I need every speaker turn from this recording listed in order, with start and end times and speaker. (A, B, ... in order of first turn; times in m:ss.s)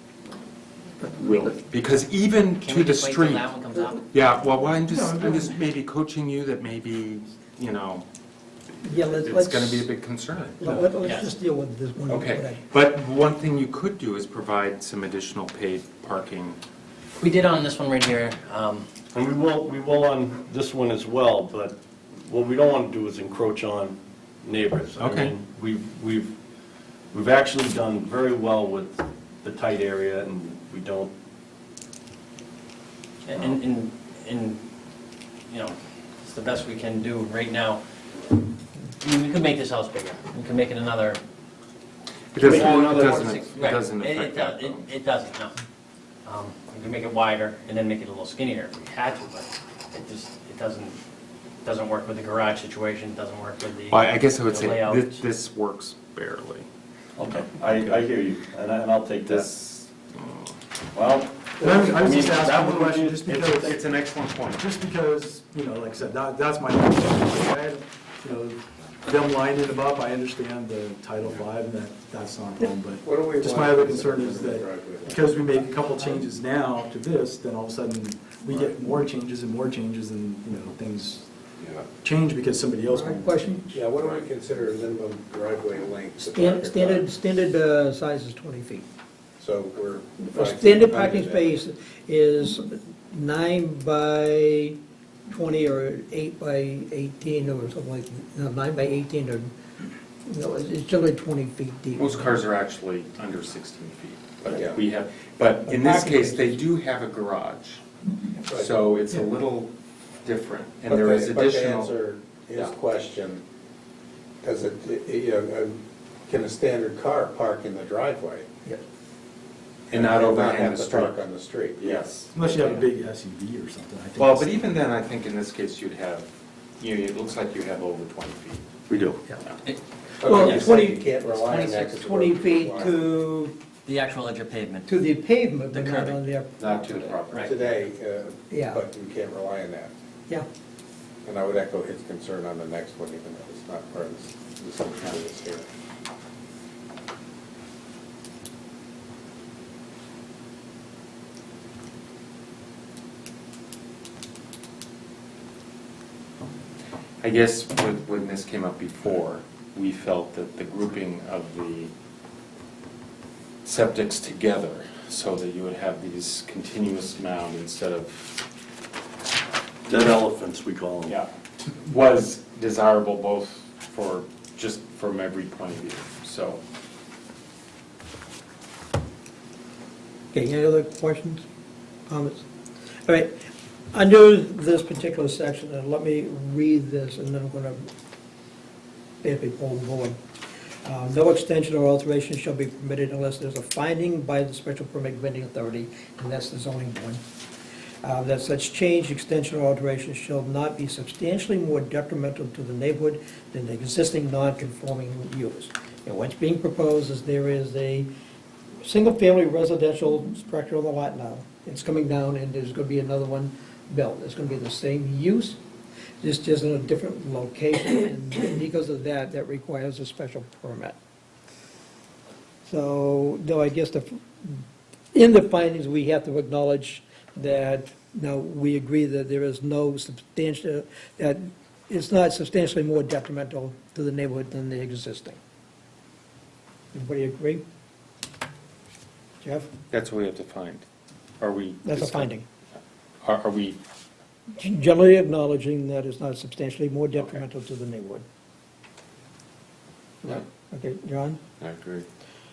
0:01.1-0:03.5 A
0:02.6-0:04.4 B
0:04.1-0:08.0 A
0:04.9-0:05.5 C
0:08.8-0:09.9 D
0:08.8-0:10.7 A
0:10.6-0:12.6 D
0:11.0-0:11.3 B
0:12.1-0:16.6 A
0:17.2-0:18.9 B
0:19.1-0:26.4 E
0:25.0-0:25.3 A
0:27.1-0:31.1 E
0:33.3-0:34.6 B
0:33.3-0:33.6 E
0:35.5-0:37.8 B
0:39.0-0:41.2 B
0:42.3-0:44.9 A
0:42.4-0:45.6 B
0:42.6-0:43.2 E
0:46.2-0:51.0 B
0:51.6-0:55.2 B
0:53.9-0:56.7 A
0:57.2-0:59.6 E
0:57.7-0:58.0 A
0:59.3-1:00.5 A
1:00.9-1:03.8 E
1:01.6-1:03.8 C
1:03.4-1:04.7 A
1:04.6-1:21.3 C
1:13.0-1:15.7 F
1:22.0-1:23.6 C
1:22.9-1:23.8 D
1:23.7-1:27.1 F
1:26.2-1:28.8 D
1:29.4-1:31.5 F
1:30.3-1:34.8 D
1:35.3-1:39.5 D
1:40.3-1:42.4 D
1:42.0-1:47.8 A
1:44.5-1:44.8 F
1:45.7-1:46.6 D
1:48.5-1:48.8 F
1:48.5-1:49.7 A
1:50.2-1:52.0 A
1:50.9-1:53.4 F
1:54.4-1:58.5 F
1:59.9-2:02.1 F
1:59.9-2:01.2 A
2:01.8-2:02.8 A
2:02.3-2:04.6 C
2:04.2-2:08.7 A
2:08.9-2:09.2 E
2:10.2-2:13.1 F
2:10.2-2:13.6 D
2:10.4-2:10.7 B
2:13.9-2:14.9 B
2:14.9-2:17.2 D
2:15.7-2:16.2 B
2:16.6-2:17.8 A
2:17.4-2:19.9 F
2:18.5-2:18.8 D
2:21.2-2:25.7 F
2:37.2-2:41.9 A
2:43.6-2:48.4 A
2:49.9-2:51.2 E
2:51.1-2:56.6 A
3:00.3-3:01.4 D
3:02.1-3:02.4 D
3:03.1-3:03.3 D
3:03.9-3:07.9 D
3:09.2-3:10.2 D
3:10.8-3:17.2 D
3:18.0-3:28.1 D
3:28.8-3:35.6 D
3:36.2-3:41.0 D
3:42.7-3:44.6 D
3:45.1-3:55.4 D
3:56.9-3:57.6 D
3:59.4-3:59.7 D
3:59.9-4:00.8 A
4:01.4-4:02.3 A
4:01.8-4:02.4 D
4:03.2-4:03.8 A
4:04.6-4:08.2 D
4:10.2-4:11.4 D
4:11.6-4:12.0 A